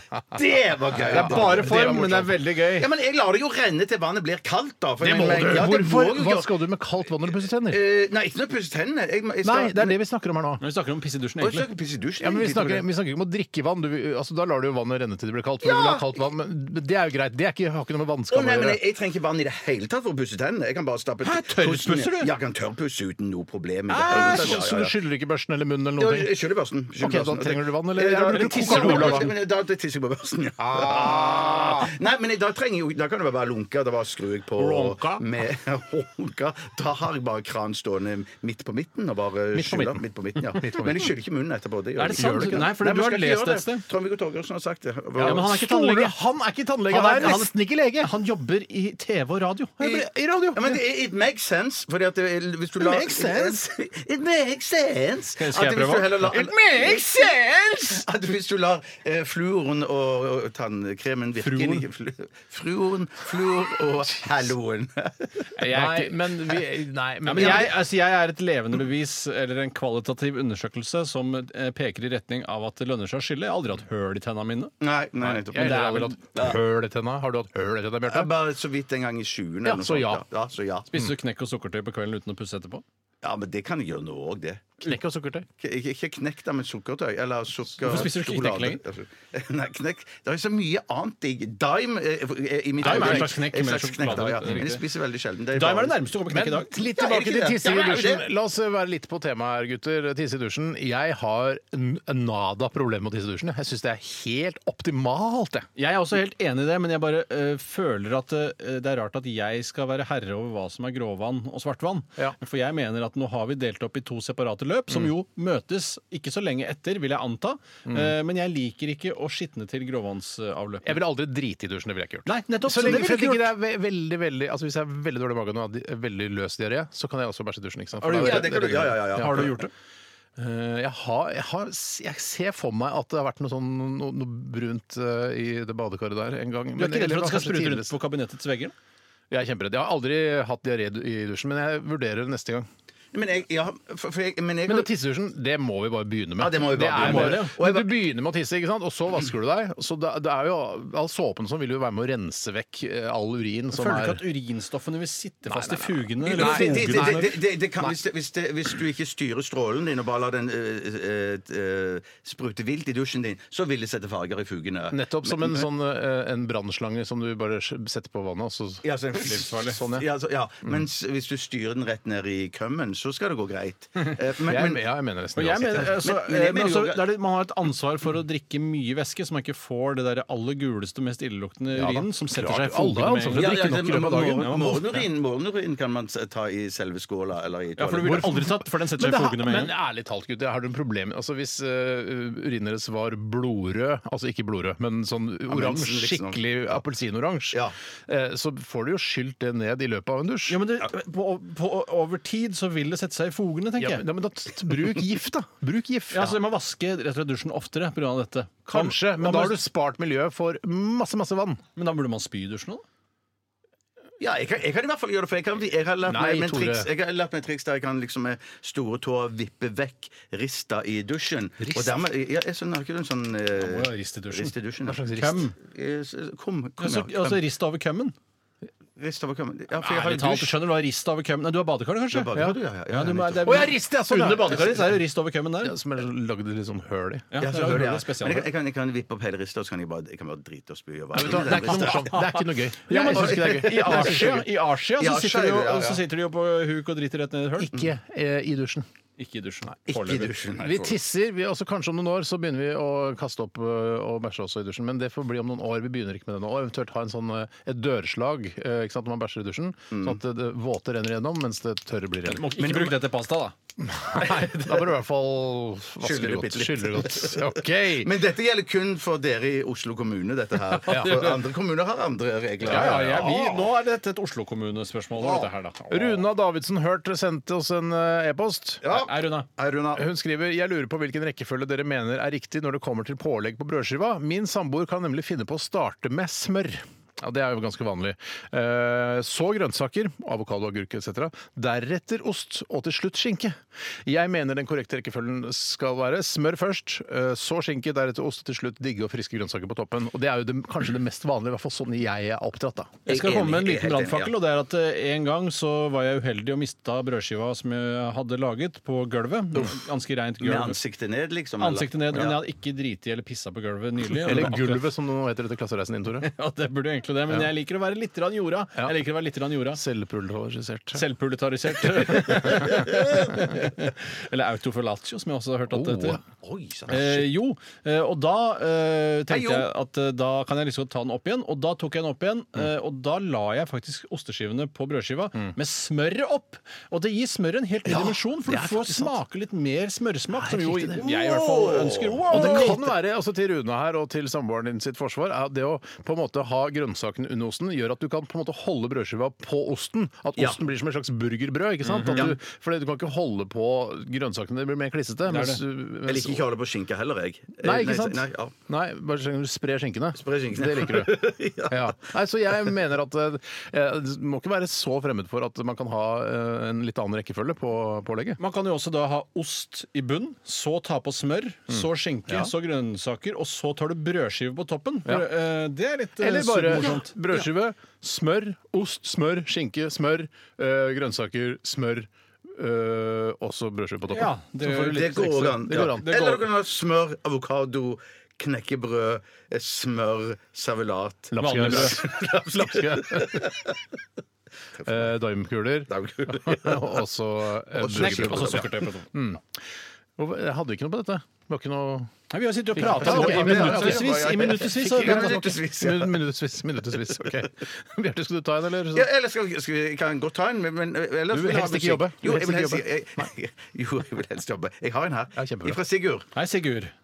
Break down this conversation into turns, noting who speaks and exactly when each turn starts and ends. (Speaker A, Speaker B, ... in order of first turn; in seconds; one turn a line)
Speaker A: 0.3-2.1
Speaker B: 0.9-2.4
Speaker C: 1.1-2.9
Speaker A: 2.8-6.7
Speaker B: 5.0-7.8
Speaker A: 7.2-9.9
Speaker B: 9.4-10.6
Speaker C: 10.6-11.7
Speaker A: 11.4-12.8
Speaker B: 12.2-18.8
Speaker A: 15.6-16.1
Speaker A: 18.3-24.9
Speaker C: 21.2-22.3
Speaker C: 23.9-24.6
Speaker B: 24.0-26.3
Speaker A: 26.0-45.6
Speaker B: 27.0-29.3
Speaker C: 28.3-29.3
Speaker B: 30.6-31.9
Speaker C: 34.6-35.2
Speaker B: 39.5-40.0
Speaker B: 40.5-41.1
Speaker C: 42.0-43.9
Speaker B: 42.2-42.7
Speaker B: 45.1-48.1
Speaker C: 45.2-46.1
Speaker C: 46.9-49.8
Speaker B: 49.8-50.8
Speaker A: 49.8-65.5
Speaker B: 52.8-53.6
Speaker C: 55.3-56.9
Speaker B: 56.3-58.0
Speaker C: 61.4-61.8
Speaker B: 65.6-67.8
Speaker C: 65.6-66.1
Speaker C: 67.2-74.7
Speaker A: 67.4-67.7
Speaker A: 74.8-76.6
Speaker B: 75.3-78.3
Speaker C: 75.5-76.2
Speaker A: 78.1-80.9
Speaker B: 79.6-80.2
Speaker C: 80.9-82.8
Speaker A: 83.2-84.8
Speaker B: 84.8-85.5
Speaker A: 85.6-96.0
Speaker C: 87.8-88.8
Speaker B: 92.8-93.3
Speaker C: 92.8-94.8
Speaker C: 95.5-96.8
Speaker B: 96.3-105.7
Speaker A: 96.8-98.3
Speaker C: 105.8-121.0
Speaker B: 117.8-118.1
Speaker B: 120.8-129.6
Speaker C: 122.2-123.5
Speaker C: 128.0-129.7
Speaker A: 128.2-129.5
Speaker B: 130.4-137.9
Speaker C: 136.8-138.7
Speaker B: 139.3-142.7
Speaker A: 143.1-144.9
Speaker B: 144.7-154.2
Speaker A: 146.4-148.0
Speaker C: 146.9-147.5
Speaker C: 153.7-157.3
Speaker B: 155.5-157.9
Speaker A: 156.2-165.7
Speaker B: 164.9-168.8
Speaker A: 168.8-174.8
Speaker C: 169.2-169.8
Speaker B: 169.7-170.1
Speaker B: 174.4-176.0
Speaker C: 175.3-185.0
Speaker A: 175.7-177.0
Speaker B: 181.7-184.9
Speaker A: 183.3-188.3
Speaker C: 187.8-189.7
Speaker B: 188.0-200.6
Speaker A: 195.5-196.6
Speaker C: 200.5-204.0
Speaker B: 203.8-206.4
Speaker C: 206.1-209.6
Speaker B: 208.7-211.6
Speaker C: 211.8-212.8
Speaker A: 214.2-225.0
Speaker B: 216.1-216.9
Speaker B: 221.6-222.0
Speaker C: 223.6-224.5
Speaker B: 224.9-225.5
Speaker C: 225.1-225.5
Speaker A: 225.6-227.4
Speaker C: 226.8-228.1
Speaker A: 229.0-230.5
Speaker C: 229.8-232.3
Speaker A: 232.1-233.7
Speaker C: 232.9-235.7
Speaker B: 233.4-234.9
Speaker B: 235.6-237.3
Speaker C: 237.3-238.5
Speaker A: 237.4-242.3
Speaker B: 241.1-244.4
Speaker C: 241.6-247.7
Speaker A: 243.1-244.4
Speaker A: 245.0-246.0
Speaker B: 247.6-248.9
Speaker C: 249.2-250.3
Speaker A: 249.9-251.0
Speaker B: 250.6-262.5
Speaker A: 259.9-260.2
Speaker C: 262.2-263.6
Speaker A: 262.6-263.0
Speaker B: 263.8-268.1
Speaker A: 266.0-273.6
Speaker B: 270.9-271.3
Speaker B: 272.6-273.4
Speaker C: 272.6-276.2
Speaker A: 275.2-275.5
Speaker B: 275.9-278.8
Speaker A: 278.8-280.1
Speaker C: 278.9-279.5
Speaker B: 279.9-303.0
Speaker A: 303.1-304.3
Speaker C: 303.1-310.8
Speaker A: 310.4-312.4
Speaker C: 311.6-314.8
Speaker B: 314.2-316.3
Speaker C: 316.2-319.8
Speaker B: 319.7-321.0
Speaker C: 320.9-326.2
Speaker B: 322.2-322.6
Speaker B: 325.7-326.2
Speaker A: 326.4-327.0
Speaker C: 326.9-342.8
Speaker A: 329.3-329.6
Speaker B: 337.9-339.2
Speaker B: 340.3-341.0
Speaker A: 341.0-342.8
Speaker B: 342.3-356.4
Speaker C: 351.8-352.3
Speaker C: 355.3-355.6
Speaker A: 356.1-358.5
Speaker B: 357.6-368.4
Speaker A: 360.1-362.0
Speaker C: 368.4-377.5
Speaker B: 371.7-372.5
Speaker B: 376.2-386.4
Speaker C: 384.1-386.3
Speaker A: 384.7-393.8
Speaker B: 391.3-393.6
Speaker C: 391.4-392.0
Speaker B: 394.8-399.5
Speaker A: 395.9-396.9
Speaker A: 397.8-398.9
Speaker C: 397.9-399.1
Speaker B: 400.2-402.1
Speaker C: 402.3-405.4
Speaker B: 402.7-409.1
Speaker A: 402.8-406.2
Speaker A: 408.9-416.3
Speaker B: 411.3-413.3
Speaker B: 415.4-415.8
Speaker C: 416.3-416.9